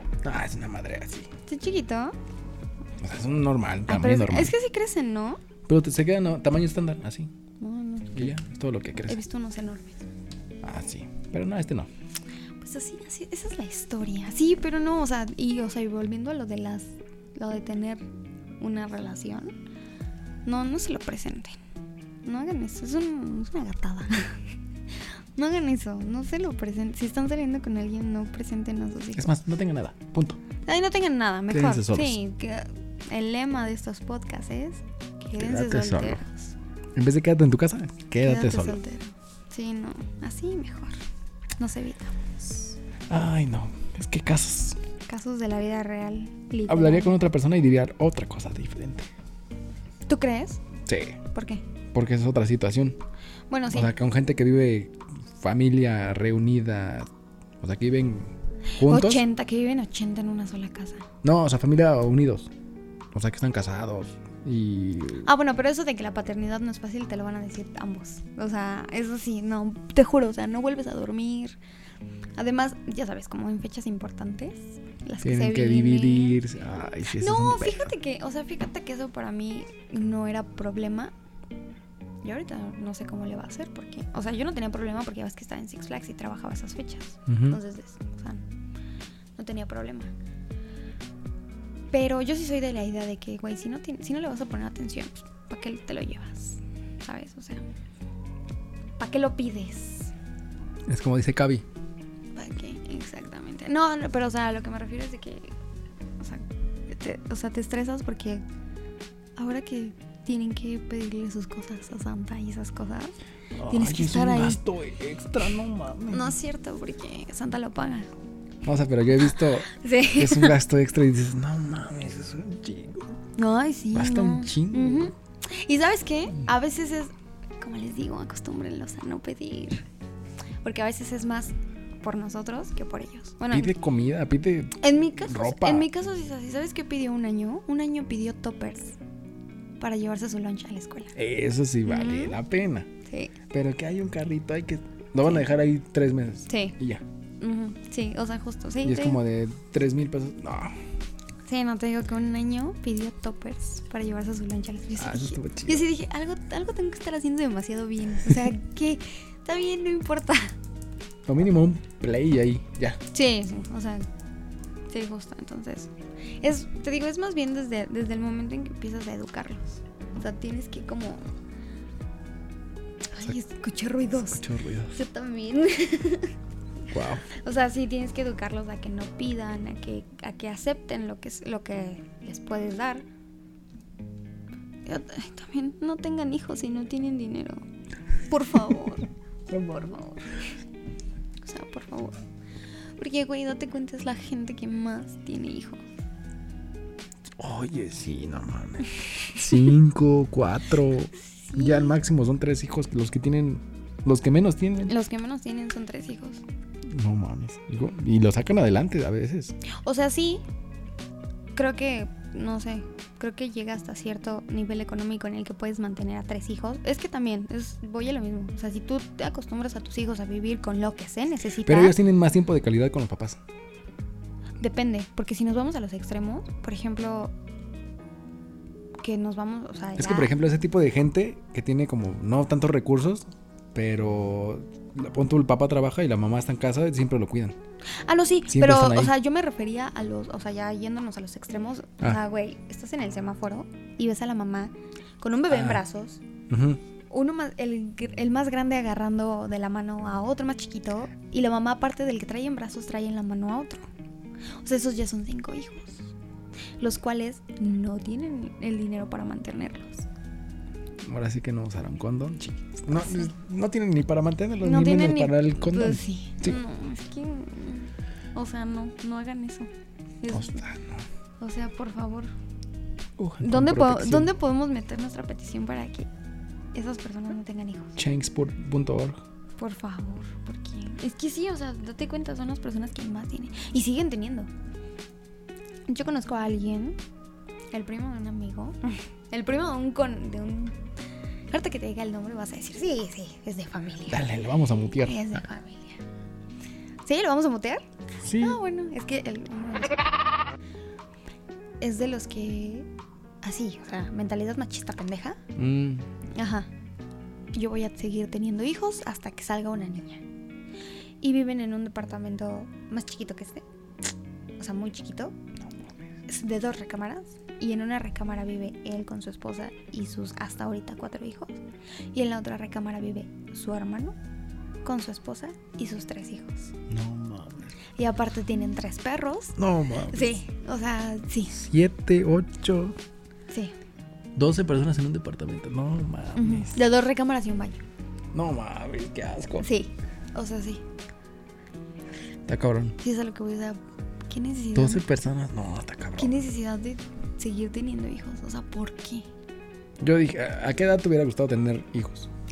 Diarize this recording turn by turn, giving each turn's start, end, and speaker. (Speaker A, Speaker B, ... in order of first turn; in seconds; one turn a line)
Speaker A: 0.2-1.3
Speaker B: 1.5-2.1
Speaker A: 3.0-4.5
Speaker B: 3.9-5.4
Speaker A: 5.7-7.3
Speaker B: 7.6-8.4
Speaker A: 8.1-9.2
Speaker B: 9.0-10.0
Speaker A: 10.6-11.9
Speaker B: 12.6-18.0
Speaker B: 18.6-19.5
Speaker B: 20.4-21.6
Speaker B: 22.2-24.4
Speaker B: 25.4-29.3
Speaker A: 29.1-30.4
Speaker B: 30.7-36.5
Speaker A: 31.5-32.2
Speaker A: 35.4-36.2
Speaker A: 36.9-38.8
Speaker B: 38.2-41.0
Speaker B: 41.6-42.3
Speaker A: 43.1-44.8
Speaker B: 45.1-47.2
Speaker A: 46.7-49.1
Speaker B: 50.1-50.6
Speaker A: 50.9-51.2
Speaker B: 51.3-51.6
Speaker A: 51.9-53.0
Speaker B: 53.5-53.9
Speaker A: 53.7-57.1
Speaker A: 57.6-59.2
Speaker B: 58.8-61.0
Speaker A: 61.2-62.5
Speaker A: 63.1-65.3
Speaker B: 65.2-71.6
Speaker B: 72.4-76.4
Speaker A: 75.2-77.9
Speaker B: 77.1-81.1
Speaker B: 82.2-88.4
Speaker A: 87.3-87.6
Speaker B: 89.4-90.1
Speaker B: 91.9-97.6
Speaker B: 99.0-100.1
Speaker A: 100.9-101.7
Speaker B: 102.3-105.5
Speaker B: 106.2-108.4
Speaker B: 109.4-113.1
Speaker A: 113.6-116.3
Speaker B: 113.7-114.6
Speaker B: 116.1-118.1
Speaker A: 118.6-123.2
Speaker B: 119.7-120.6
Speaker B: 123.4-129.8
Speaker A: 123.9-125.1
Speaker B: 130.6-133.7
Speaker A: 133.5-135.9
Speaker B: 134.8-138.9
Speaker B: 139.8-141.1
Speaker A: 141.1-142.9
Speaker B: 141.8-142.4
Speaker B: 143.0-143.3
Speaker A: 143.5-147.0
Speaker B: 146.5-146.8
Speaker B: 147.4-149.2
Speaker A: 148.8-150.7
Speaker B: 151.4-160.5
Speaker A: 155.0-155.8
Speaker A: 161.3-163.0
Speaker B: 163.1-164.1
Speaker B: 164.9-171.2
Speaker B: 173.1-176.3
Speaker A: 174.3-175.0
Speaker A: 176.9-177.2
Speaker B: 177.3-183.0
Speaker B: 184.8-187.6
Speaker B: 188.2-190.5
Speaker A: 189.5-189.9
Speaker B: 191.4-192.2
Speaker B: 193.0-195.8
Speaker A: 197.4-204.9
Speaker B: 201.2-201.9
Speaker B: 204.8-206.4
Speaker A: 206.8-209.5
Speaker B: 209.6-210.4
Speaker B: 211.6-222.0
Speaker A: 221.6-223.4
Speaker B: 224.6-227.3
Speaker B: 229.0-230.3
Speaker A: 230.0-237.6
Speaker B: 238.0-246.2
Speaker A: 238.5-239.1
Speaker A: 245.5-245.8
Speaker A: 246.5-246.8
Speaker B: 247.1-253.8
Speaker B: 254.6-256.1
Speaker B: 256.8-260.1
Speaker A: 261.0-266.6
Speaker B: 263.0-263.3
Speaker B: 264.6-269.7
Speaker B: 270.2-270.6
Speaker A: 270.3-271.0
Speaker B: 271.4-272.3
Speaker A: 273.2-274.3
Speaker B: 273.4-276.1
Speaker B: 276.7-278.0
Speaker A: 278.0-279.2
Speaker B: 279.6-284.5
Speaker B: 285.9-286.9
Speaker B: 287.7-290.7
Speaker B: 291.5-294.2
Speaker A: 294.1-295.4
Speaker B: 295.0-296.0
Speaker B: 297.0-299.9
Speaker A: 298.2-298.6
Speaker B: 301.8-302.9
Speaker B: 303.4-305.4
Speaker A: 305.6-306.1
Speaker B: 306.3-306.7
Speaker B: 307.5-310.2
Speaker B: 311.2-313.6
Speaker B: 314.6-315.3
Speaker B: 316.3-321.6
Speaker B: 322.1-324.1
Speaker B: 324.8-326.7
Speaker A: 326.9-327.7
Speaker B: 328.0-331.6
Speaker A: 329.6-330.4
Speaker A: 331.5-333.0
Speaker A: 334.3-336.8
Speaker B: 336.3-337.8
Speaker A: 338.3-339.6
Speaker B: 339.6-340.8
Speaker A: 342.5-342.9
Speaker B: 343.0-345.0
Speaker A: 344.7-346.4
Speaker B: 346.2-349.2
Speaker A: 350.0-352.3